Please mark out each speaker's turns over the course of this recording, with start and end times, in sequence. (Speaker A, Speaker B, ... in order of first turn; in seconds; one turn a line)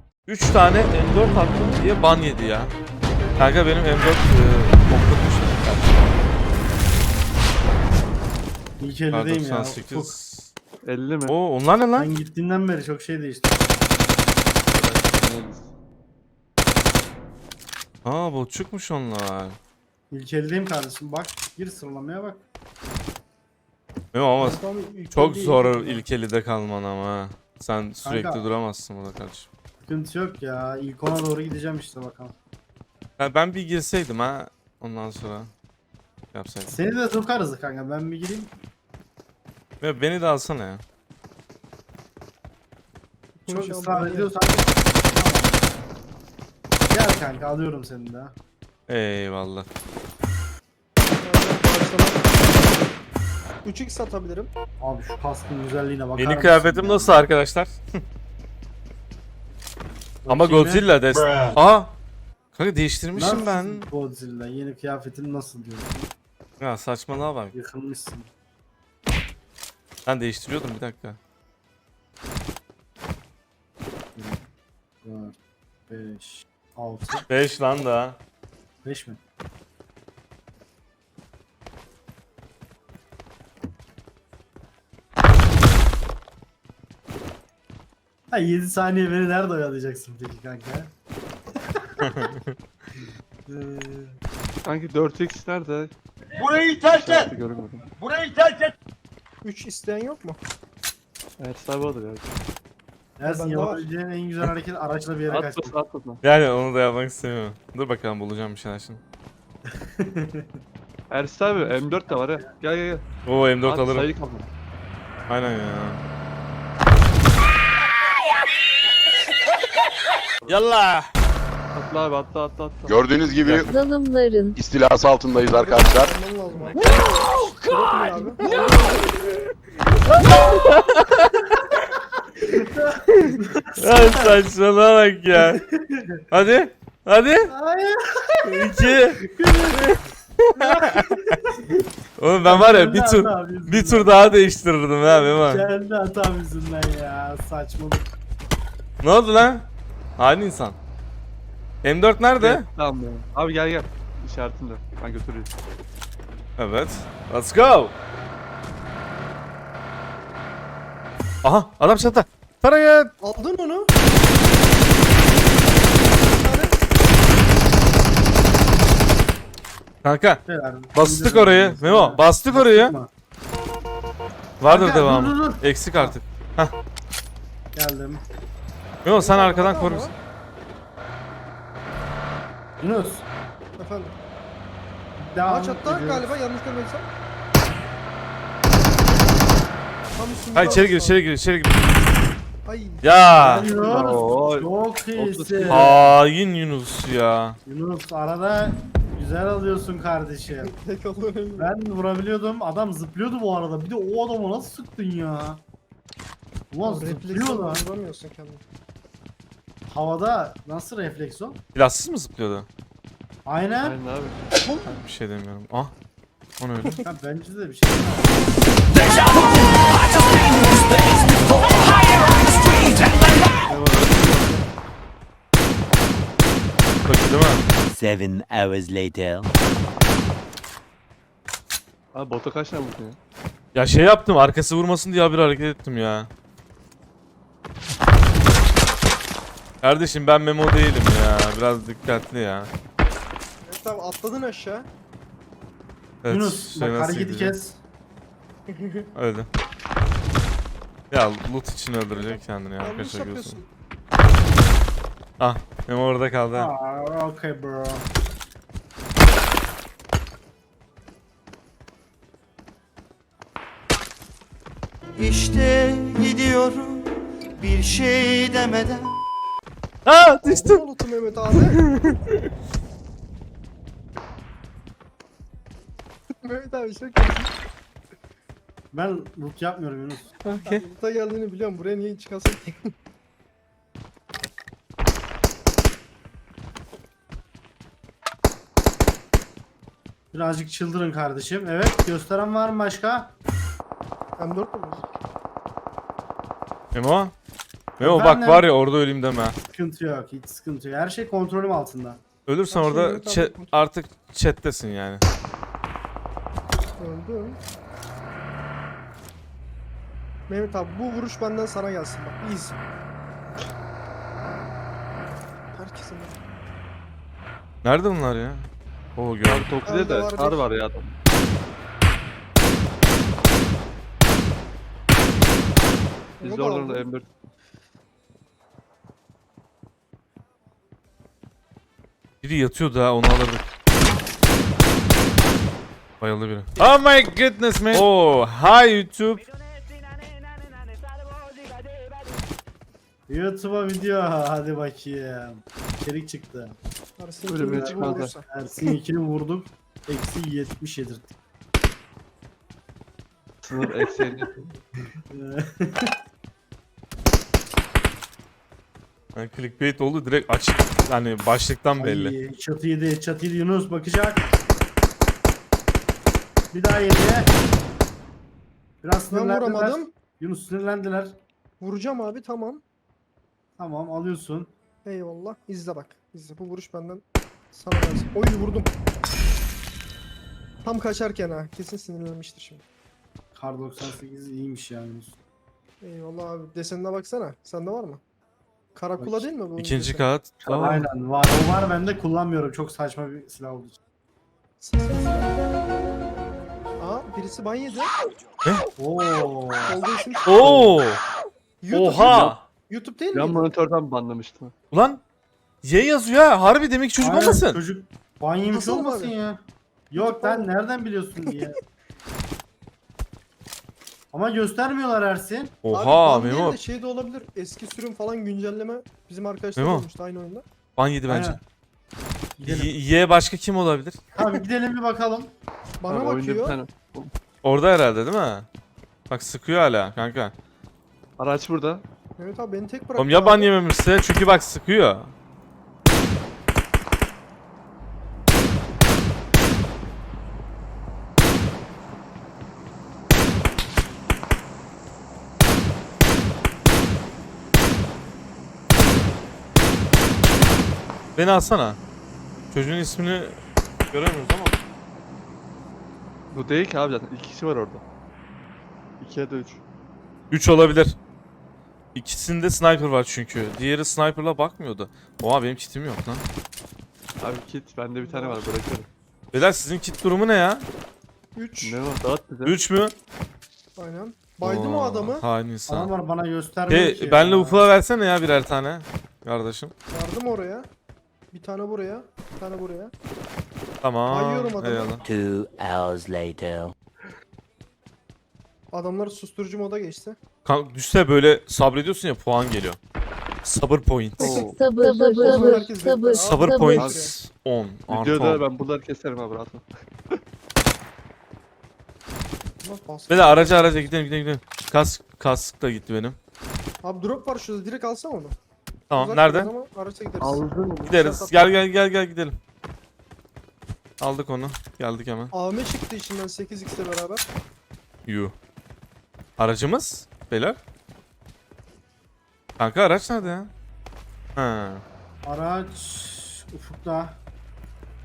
Speaker A: 0.3-2.8
Speaker A: 3.4-6.1
Speaker B: 8.8-10.2
Speaker A: 9.1-10.5
Speaker C: 10.8-11.3
Speaker A: 11.3-12.1
Speaker B: 11.9-13.7
Speaker C: 14.7-15.7
Speaker A: 18.0-19.6
Speaker B: 20.1-22.4
Speaker A: 24.1-24.6
Speaker D: 24.4-26.0
Speaker A: 25.1-29.5
Speaker B: 28.0-28.4
Speaker B: 29.8-32.4
Speaker A: 33.2-35.5
Speaker A: 36.3-36.8
Speaker B: 36.7-38.5
Speaker A: 39.8-40.8
Speaker D: 43.3-44.3
Speaker B: 43.5-45.6
Speaker B: 46.9-48.4
Speaker A: 48.9-49.7
Speaker D: 51.2-52.3
Speaker D: 53.6-54.5
Speaker B: 54.8-57.2
Speaker A: 56.1-58.0
Speaker B: 60.2-60.9
Speaker A: 60.3-62.0
Speaker A: 62.5-63.9
Speaker B: 63.1-66.1
Speaker D: 63.2-63.7
Speaker A: 66.6-67.5
Speaker B: 67.5-68.3
Speaker A: 70.0-71.2
Speaker B: 74.2-74.4
Speaker B: 75.0-75.3
Speaker B: 75.9-77.2
Speaker A: 77.3-78.2
Speaker B: 78.8-79.2
Speaker B: 88.3-90.9
Speaker A: 92.0-92.5
Speaker B: 93.5-94.2
Speaker C: 94.6-95.9
Speaker C: 96.9-97.9
Speaker D: 99.4-100.4
Speaker C: 101.4-102.4
Speaker B: 103.2-105.7
Speaker D: 103.2-103.8
Speaker C: 105.3-106.2
Speaker A: 106.2-109.0
Speaker B: 110.0-110.5
Speaker C: 111.1-113.0
Speaker B: 111.6-112.4
Speaker A: 113.2-114.1
Speaker C: 113.6-114.5
Speaker A: 115.3-116.0
Speaker A: 120.5-121.1
Speaker C: 121.7-123.7
Speaker E: 122.9-123.7
Speaker F: 123.6-124.6
Speaker E: 124.5-126.1
Speaker D: 125.5-129.1
Speaker A: 128.4-128.7
Speaker A: 129.8-131.4
Speaker B: 132.5-134.4
Speaker A: 133.2-135.6
Speaker B: 135.3-136.2
Speaker A: 136.3-137.5
Speaker B: 137.5-140.0
Speaker A: 138.5-139.2
Speaker A: 139.8-141.4
Speaker B: 140.6-141.5
Speaker A: 142.2-145.7
Speaker B: 142.4-144.1
Speaker B: 145.0-148.1
Speaker A: 149.0-150.8
Speaker A: 151.8-152.6
Speaker C: 152.4-155.5
Speaker A: 156.6-157.9
Speaker A: 161.4-163.1
Speaker D: 163.2-163.9
Speaker D: 166.2-166.8
Speaker A: 170.0-170.4
Speaker B: 170.4-173.1
Speaker A: 170.9-172.9
Speaker A: 174.6-176.7
Speaker B: 174.7-176.1
Speaker B: 177.7-178.2
Speaker A: 179.0-180.1
Speaker D: 179.1-180.1
Speaker B: 182.8-183.2
Speaker D: 183.8-184.1
Speaker B: 185.2-186.3
Speaker D: 185.4-187.1
Speaker D: 190.1-191.2
Speaker A: 190.5-192.0
Speaker B: 190.6-190.9
Speaker D: 192.6-193.1
Speaker A: 193.0-193.7
Speaker B: 193.4-195.9
Speaker C: 193.7-196.2
Speaker A: 195.7-197.6
Speaker B: 197.6-200.7
Speaker D: 200.5-201.7
Speaker B: 201.6-205.6
Speaker B: 206.7-207.8
Speaker D: 206.8-208.6
Speaker B: 209.9-211.6
Speaker A: 211.7-212.7
Speaker B: 213.4-214.0
Speaker C: 213.8-214.4
Speaker A: 214.8-215.9
Speaker A: 216.6-217.0
Speaker B: 217.0-218.5
Speaker C: 223.7-224.6
Speaker A: 227.1-227.6
Speaker G: 227.9-229.5
Speaker C: 232.1-233.2
Speaker A: 233.7-236.3
Speaker A: 239.8-242.7
Speaker D: 243.6-244.9
Speaker A: 246.2-247.6
Speaker B: 246.3-247.8
Speaker D: 248.7-249.1
Speaker A: 249.1-249.5
Speaker A: 251.1-253.6
Speaker D: 252.1-253.7
Speaker A: 255.4-256.7
Speaker B: 256.5-258.1
Speaker H: 265.1-269.2
Speaker A: 270.0-270.8
Speaker D: 270.4-271.8
Speaker A: 271.8-272.1
Speaker D: 276.4-277.5
Speaker B: 278.9-280.4
Speaker D: 280.4-282.9
Speaker B: 290.3-293.3
Speaker D: 294.4-295.0
Speaker A: 296.9-297.3
Speaker B: 298.0-298.7
Speaker A: 298.0-299.6
Speaker B: 299.7-302.2
Speaker A: 302.4-305.2
Speaker D: 302.7-303.7
Speaker D: 307.0-307.6
Speaker D: 310.5-312.8
Speaker D: 315.7-316.4
Speaker A: 317.8-319.7
Speaker C: 319.4-321.1
Speaker D: 319.9-320.6
Speaker D: 326.4-327.1
Speaker C: 326.4-327.3
Speaker A: 332.4-333.7
Speaker A: 336.2-336.8
Speaker G: 337.8-338.1
Speaker A: 337.9-339.4
Speaker H: 339.8-340.3
Speaker H: 341.5-342.1
Speaker B: 343.3-346.8
Speaker D: 347.2-348.4
Speaker C: 347.5-348.3
Speaker B: 347.6-351.3
Speaker C: 353.6-354.7
Speaker B: 355.3-356.1
Speaker A: 359.3-362.4
Speaker B: 362.0-364.4
Speaker B: 366.7-367.6
Speaker B: 369.0-371.4
Speaker D: 369.3-370.1
Speaker D: 371.8-372.8
Speaker B: 373.8-374.7
Speaker D: 375.0-378.9
Speaker D: 380.8-382.8
Speaker B: 383.5-385.4
Speaker D: 386.0-388.2
Speaker D: 388.9-390.2
Speaker B: 389.2-389.5
Speaker A: 389.8-391.0
Speaker B: 390.6-394.0
Speaker D: 394.8-395.6
Speaker D: 397.0-398.1
Speaker B: 398.9-400.0
Speaker D: 399.9-400.6
Speaker A: 400.4-401.2
Speaker D: 401.8-403.7
Speaker A: 401.9-402.6
Speaker C: 403.3-404.7
Speaker A: 404.9-405.2
Speaker A: 405.8-407.8
Speaker B: 407.2-411.8
Speaker D: 408.7-409.3
Speaker D: 410.1-410.7
Speaker B: 414.3-415.8
Speaker A: 415.8-416.8
Speaker D: 415.9-420.6
Speaker A: 419.8-420.1
Speaker A: 421.0-421.6
Speaker B: 421.3-421.6
Speaker B: 422.6-422.9
Speaker A: 422.6-424.2
Speaker B: 424.4-425.5
Speaker D: 426.0-426.8
Speaker C: 426.1-427.3
Speaker A: 427.6-428.7
Speaker A: 429.3-430.5
Speaker C: 431.4-432.0
Speaker D: 432.4-433.7
Speaker A: 433.1-435.3
Speaker A: 451.4-452.0
Speaker A: 452.7-453.6
Speaker A: 454.1-454.8
Speaker C: 456.5-458.0
Speaker C: 459.2-459.8
Speaker A: 460.5-461.2
Speaker A: 462.1-466.4
Speaker C: 467.4-469.1
Speaker D: 468.2-468.7
Speaker A: 469.5-470.9
Speaker D: 471.5-472.0
Speaker C: 471.8-472.8
Speaker A: 472.6-473.1
Speaker D: 473.9-475.4
Speaker A: 474.6-476.1
Speaker B: 475.9-477.9
Speaker A: 476.9-479.9
Speaker D: 480.1-480.9
Speaker D: 481.5-483.1
Speaker A: 484.0-485.2
Speaker D: 484.3-485.2
Speaker G: 485.2-486.9
Speaker D: 488.9-490.4
Speaker A: 490.6-493.0
Speaker A: 493.6-494.6
Speaker C: 494.4-494.8
Speaker D: 494.4-497.4
Speaker F: 494.6-497.0
Speaker A: 496.4-498.6
Speaker C: 496.9-497.3
Speaker C: 498.1-500.4
Speaker D: 502.8-503.9
Speaker A: 503.3-506.4
Speaker D: 507.0-508.6
Speaker A: 509.1-509.7
Speaker D: 509.1-511.8
Speaker C: 510.4-511.1
Speaker A: 511.1-512.6
Speaker A: 514.2-515.5
Speaker D: 515.5-517.5
Speaker A: 518.2-518.5
Speaker A: 519.6-520.8
Speaker A: 522.8-523.7
Speaker A: 524.5-525.0
Speaker B: 525.4-527.4